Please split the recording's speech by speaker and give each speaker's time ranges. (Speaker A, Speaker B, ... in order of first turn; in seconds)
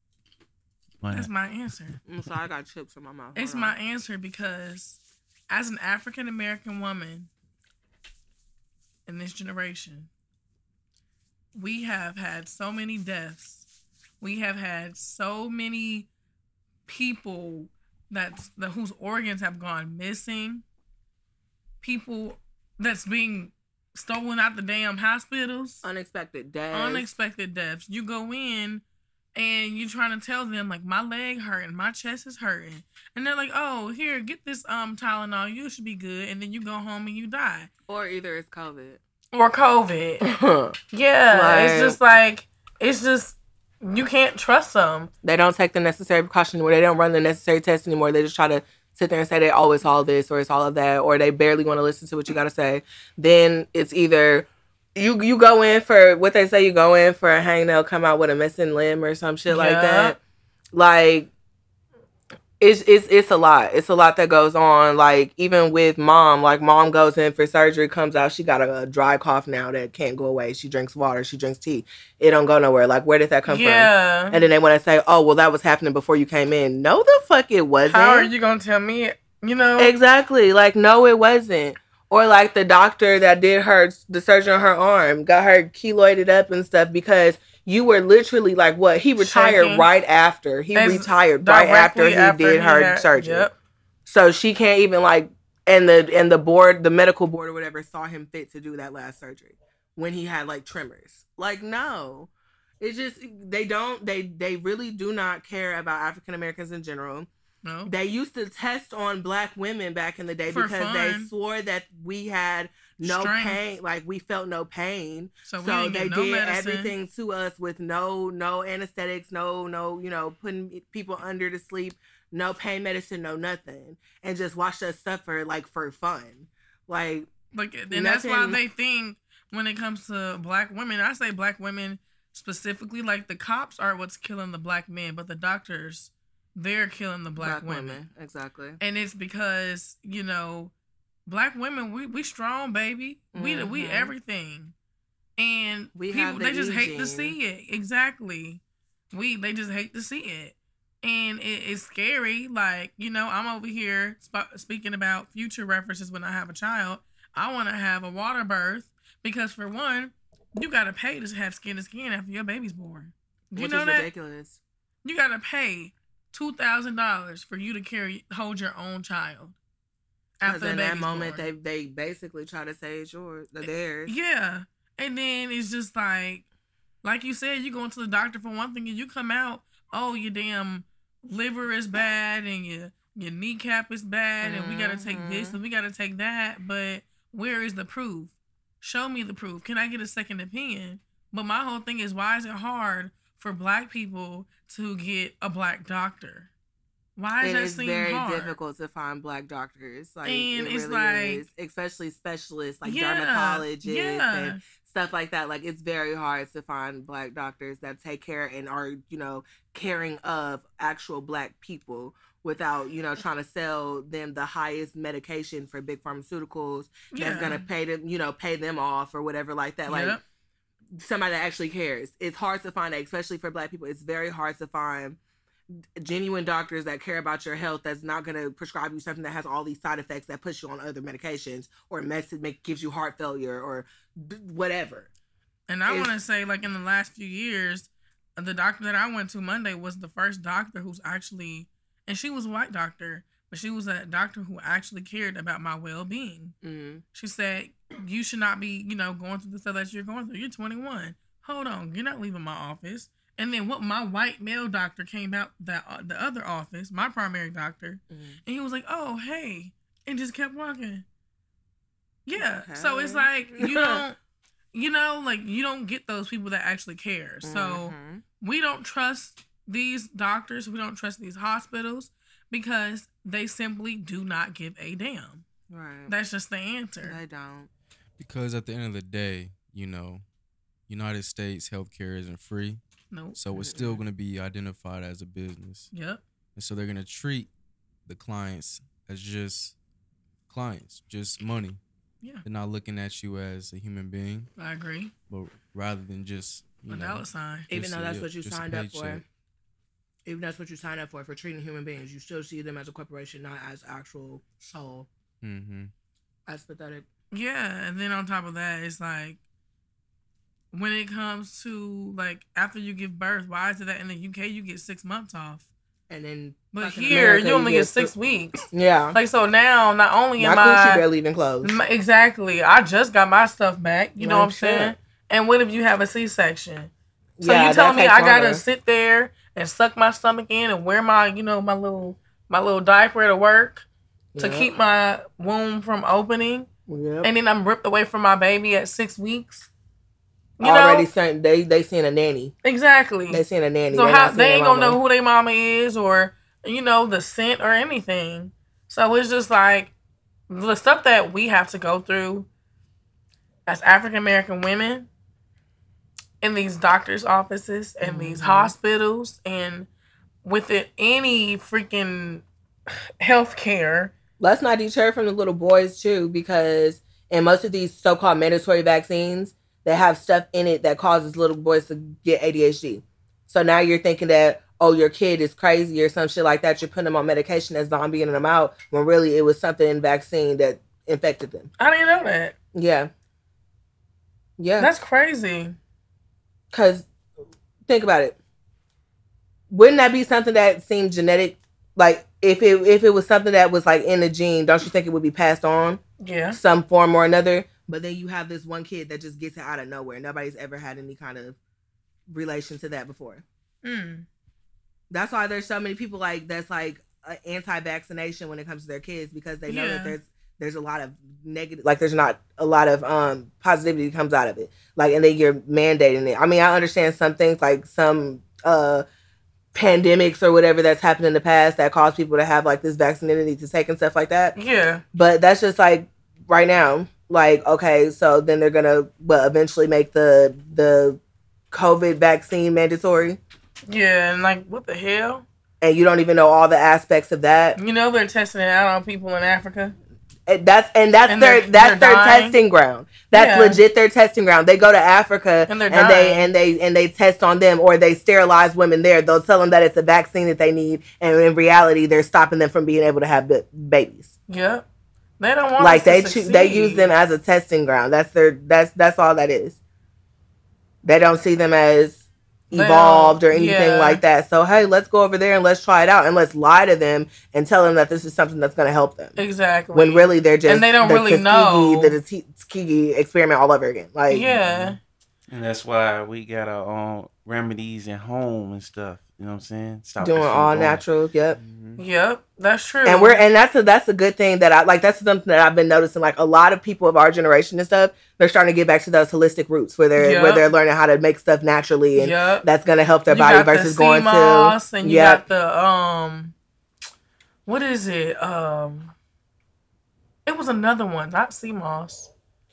Speaker A: 1.0-1.3, 475.5-481.0
Speaker B: 1.1-2.0, 3.4-7.3, 9.1-10.1, 11.6-13.7, 14.2-16.1, 16.9-20.6, 21.8-25.8, 26.7-28.8, 29.4-37.7, 39.3-40.2, 40.9-45.1, 59.5-60.2, 73.5-74.5, 77.9-79.9, 89.2-89.9, 90.8-93.5, 107.7-107.9, 110.5-111.3, 113.0-113.6, 115.5-116.9, 127.5-138.0, 138.8-140.7, 141.3-144.7, 145.4-148.6, 149.1-164.1, 165.0-169.6, 170.4-171.5, 174.1-176.4, 177.0-196.5, 197.2-198.6, 200.2-201.4, 202.8-204.6, 217.1-217.7, 219.9-220.2, 235.7-246.6, 247.1-261.1, 262.3-264.2, 264.7-275.4, 276.1-277.2, 283.1-283.4, 285.9-286.2, 294.6-295.1, 296.9-297.7, 307.3-309.4, 310.7-315.7, 316.7-321.0, 321.6-326.9, 327.4-333.9, 334.4-336.7, 337.2-339.7, 340.6-341.1, 342.6-349.9, 350.5-352.5, 353.7-355.1, 356.4-359.9, 360.4-364.1, 381.8-382.6, 384.8-385.8, 396.2-396.6, 403.8-404.3, 409.7-410.2, 424.6-425.0, 433.9-435.4, 437.8-439.9, 441.3-442.6, 443.3-443.8, 445.7-446.5, 454.5-454.9, 455.4-457.1, 462.7-464.2, 469.4-472.2, 474.3-475.0, 482.0-483.4, 490.2-490.7, 492.2-492.7, 493.3-496.5, 497.7-499.1, 500.5-502.3
Speaker C: 2.1-3.8, 25.8-27.1, 37.9-39.0, 40.2-40.8, 41.3-42.0, 45.2-60.2, 60.7-61.3, 62.6-78.3, 79.8-93.5, 94.1-107.3, 107.9-127.3, 127.9-128.6, 137.4-138.8, 143.3-144.1, 145.9-147.4, 163.6-164.6, 170.4-174.1, 184.4-185.6, 197.4-220.2, 221.0-225.2, 226.0-235.1, 235.9-236.1, 246.6-247.0, 258.1-258.4, 262.4-264.0, 267.4-268.2, 275.7-276.1, 277.0-277.7, 283.5-284.0, 297.7-299.2, 300.2-305.1, 306.5-307.1, 316.1-318.1, 318.7-319.2, 320.4-321.8, 324.2-324.9, 327.4-328.6, 334.4-334.7, 336.9-337.3, 340.6-342.6, 343.3-345.0, 358.0-358.7, 364.4-381.7, 382.7-383.1, 384.6-384.9, 386.7-387.1, 387.9-388.4, 389.7-396.0, 396.5-401.6, 402.3-403.4, 405.1-419.1, 419.7-424.6, 425.1-431.2, 431.7-433.4, 435.8-437.8, 440.5-454.3, 455.8-459.8, 461.0-469.4, 469.9-474.5, 480.2-481.6, 483.1-495.4
Speaker D: 278.2-280.2, 280.9-282.8, 283.4-285.9, 286.6-287.5, 288.1-289.8, 290.5-291.8, 292.4-294.5, 295.3-299.2, 305.4-305.9, 474.4-475.0, 481.6-482.0